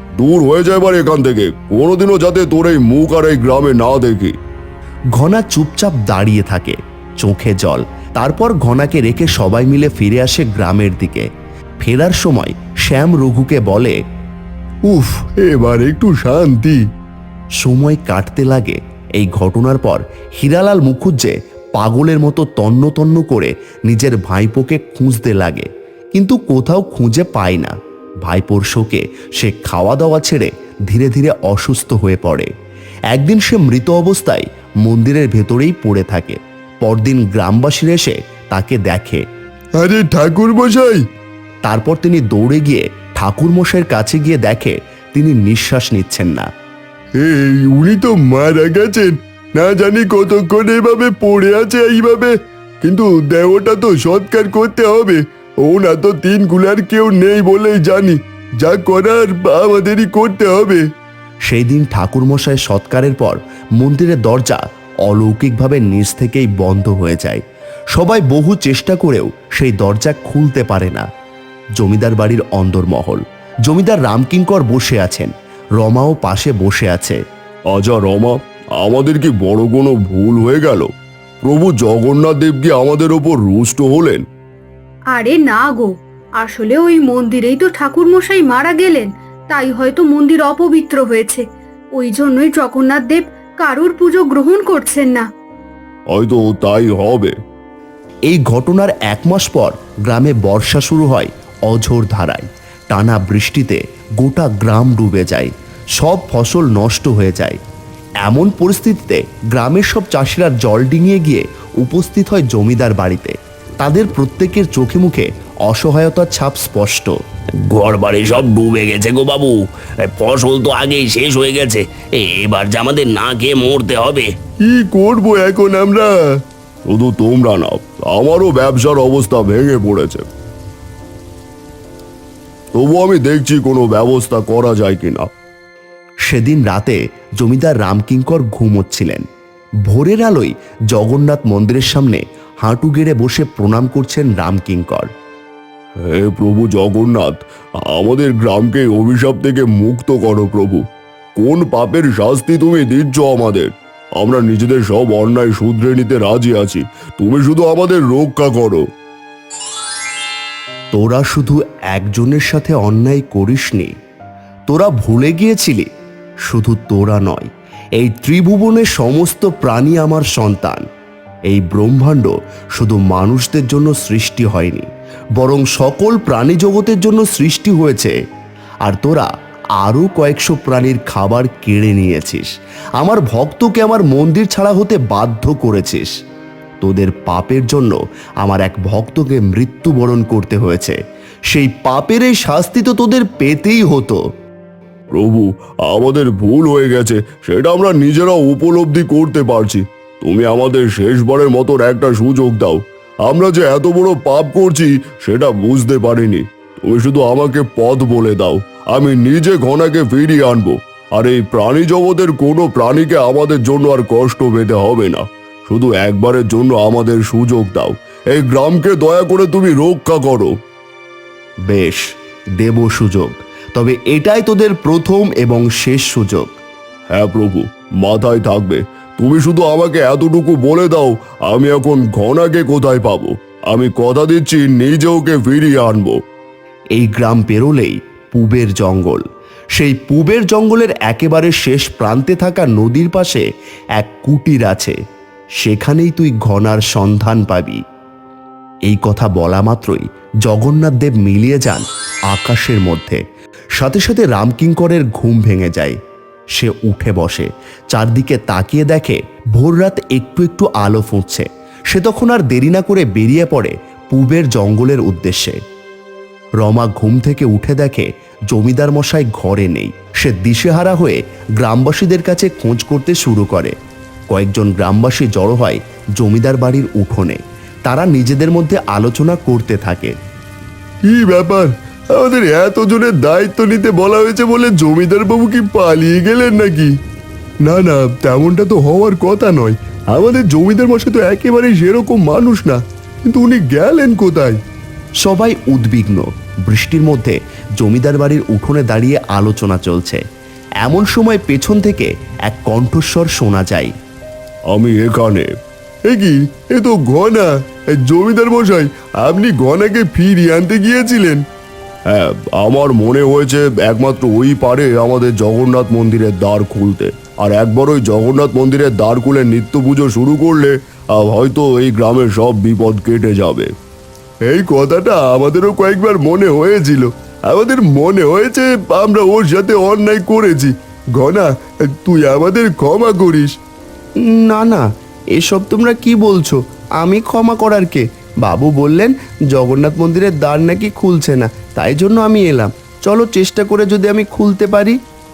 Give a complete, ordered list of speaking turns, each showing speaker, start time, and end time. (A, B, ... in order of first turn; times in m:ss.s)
0:00.2-0:04.3 A
0:05.2-0:11.2 B
0:11.8-0:14.0 B
0:14.8-0:16.8 C
0:17.6-0:27.7 B
0:28.2-0:32.5 B
0:33.1-0:39.2 B
0:39.8-0:41.0 C
0:41.6-0:46.5 B
0:47.2-1:00.8 C
1:01.5-1:07.4 B
1:07.9-1:11.0 B
1:11.8-1:17.2 B
1:17.7-1:20.9 A
1:21.4-1:24.2 A
1:25.1-1:31.4 D
1:32.0-1:35.3 D
1:36.1-1:37.3 A
1:38.3-1:47.6 B
1:48.2-1:57.1 B
1:57.6-1:59.6 E
2:00.1-2:04.3 E
2:06.9-2:10.2 A
2:12.7-2:15.3 A
2:16.3-2:19.2 B
2:19.9-2:25.1 B
2:26.1-2:30.8 A
2:31.4-2:38.8 A
2:40.9-2:43.9 B
2:44.7-2:45.9 B
2:46.5-2:50.8 B
2:51.5-2:54.9 B
2:55.4-2:58.1 B
2:58.8-2:59.3 B
2:59.8-3:06.1 B
3:06.8-3:11.0 B
3:11.5-3:14.2 B
3:15.1-3:40.5 A
3:41.7-3:42.0 B
3:42.6-3:46.6 B
3:47.1-3:56.2 A
3:57.0-3:59.2 B
3:59.8-4:03.4 B
4:04.0-4:05.0 B
4:05.6-4:07.8 B
4:08.9-4:13.2 B
4:13.8-4:16.0 B
4:16.6-4:25.6 B
4:26.6-4:33.7 B
4:34.3-4:40.1 B
4:41.0-4:46.9 C
4:47.6-4:54.6 C
4:55.2-5:00.2 B
5:00.8-5:03.9 B
5:04.7-5:05.5 A
5:06.3-5:07.4 A
5:08.3-5:08.9 A
5:09.2-5:11.4 C
5:09.5-5:09.9 A
5:12.1-5:23.7 A
5:24.5-5:31.5 C
5:32.0-5:33.5 C
5:34.3-5:34.8 B
5:35.4-5:45.0 B